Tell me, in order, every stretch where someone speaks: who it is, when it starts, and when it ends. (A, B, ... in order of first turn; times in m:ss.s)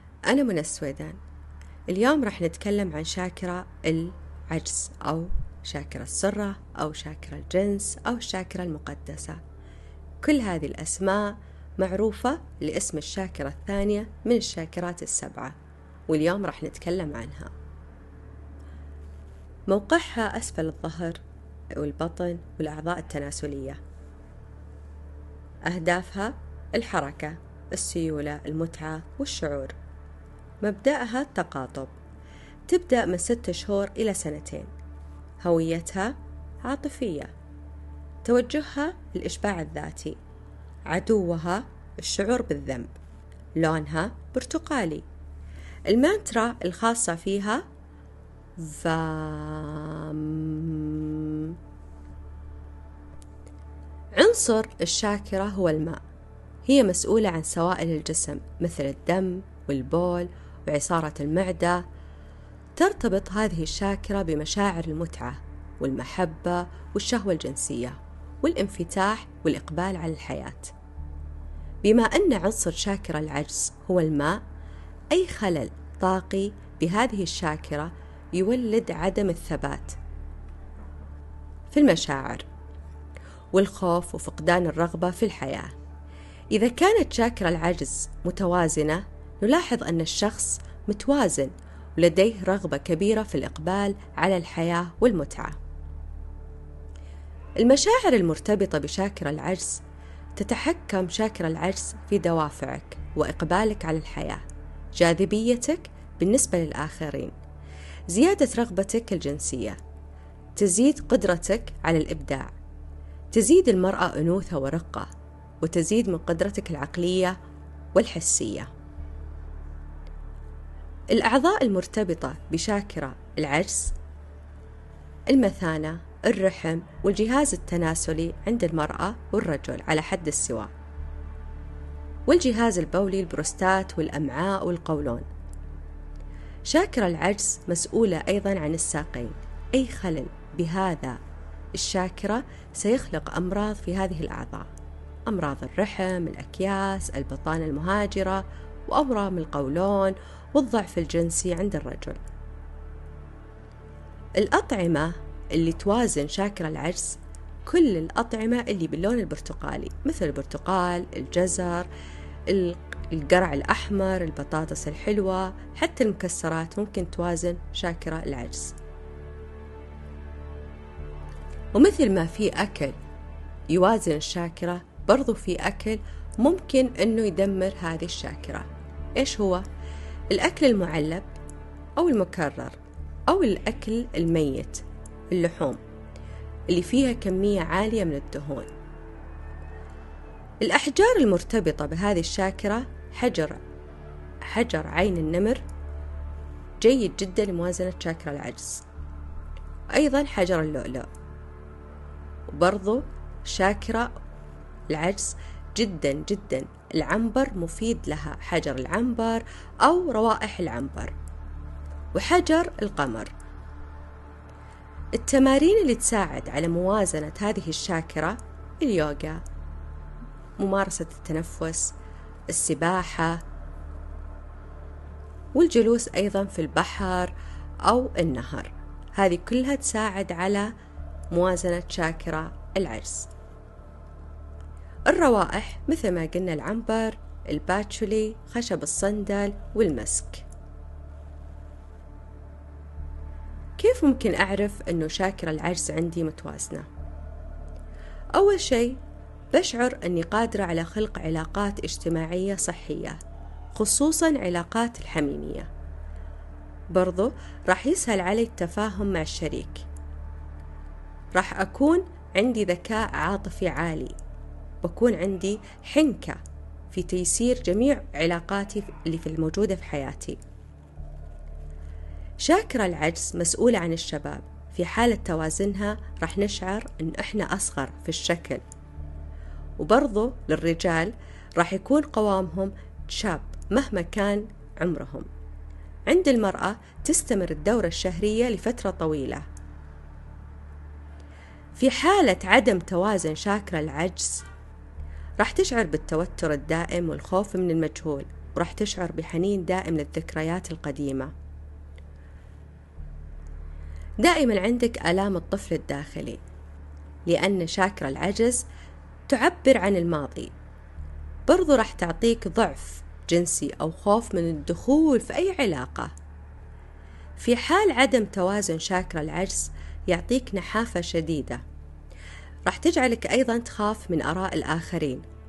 0:00.3-0:01.2 A
0:01.9-0:09.4 A
0:10.2-0:15.6 A
0:16.1-0:17.5 A
0:19.7-0:21.2 A
0:21.7-0:23.8 A
0:25.7-0:29.8 A
0:30.6-0:31.9 A
0:32.7-0:34.7 A
0:35.4-0:37.3 A
0:38.2-0:40.2 A
0:40.9-0:42.9 A
0:43.6-0:45.0 A
0:45.9-0:47.6 A
0:48.6-0:51.6 A
0:54.2-0:56.0 A
0:56.7-1:01.8 A
1:02.8-1:10.7 A
1:11.8-1:14.4 A
1:15.1-1:20.0 A
1:21.7-1:22.4 A
1:23.5-1:25.7 A
1:26.5-1:35.6 A
1:37.6-1:39.8 A
1:40.4-1:44.4 A
1:45.0-1:47.4 A
1:48.1-1:49.8 A
1:50.6-1:52.5 A
1:53.3-1:55.1 A
1:55.6-1:57.4 A
1:58.0-1:58.7 A
2:01.1-2:04.0 A
2:05.3-2:10.7 A
2:12.3-2:15.2 A
2:16.7-2:21.2 A
2:21.8-2:24.7 A
2:25.3-2:32.2 A
2:34.4-2:41.9 A
2:42.5-2:48.8 A
2:51.7-2:53.0 A
2:53.7-2:59.6 A
3:00.3-3:01.3 A
3:02.0-3:02.8 A
3:03.3-3:05.8 A
3:06.7-3:08.7 A
3:10.6-3:13.6 A
3:14.4-3:15.6 A
3:16.8-3:18.8 A
3:19.9-3:21.1 A
3:22.5-3:24.1 A
3:24.9-3:31.1 A
3:32.1-3:33.3 A
3:35.2-3:39.4 A
3:40.6-3:41.9 A
3:42.5-3:43.4 A
3:45.6-3:47.3 A
3:47.8-3:50.7 A
3:51.3-3:53.3 A
3:55.1-4:00.5 A
4:03.8-4:06.9 A
4:08.4-4:09.0 A
4:09.5-4:13.2 A
4:13.7-4:15.7 A
4:16.9-4:19.8 A
4:21.4-4:24.2 A
4:24.8-4:26.4 A
4:26.9-4:30.4 A
4:32.4-4:38.6 A
4:39.8-4:45.3 A
4:46.1-4:49.4 A
4:51.8-4:54.5 A
4:55.4-5:01.3 A
5:04.2-5:06.4 A
5:07.3-5:08.6 A
5:09.3-5:10.5 A
5:11.5-5:16.1 A
5:17.4-5:21.6 A
5:22.7-5:25.2 A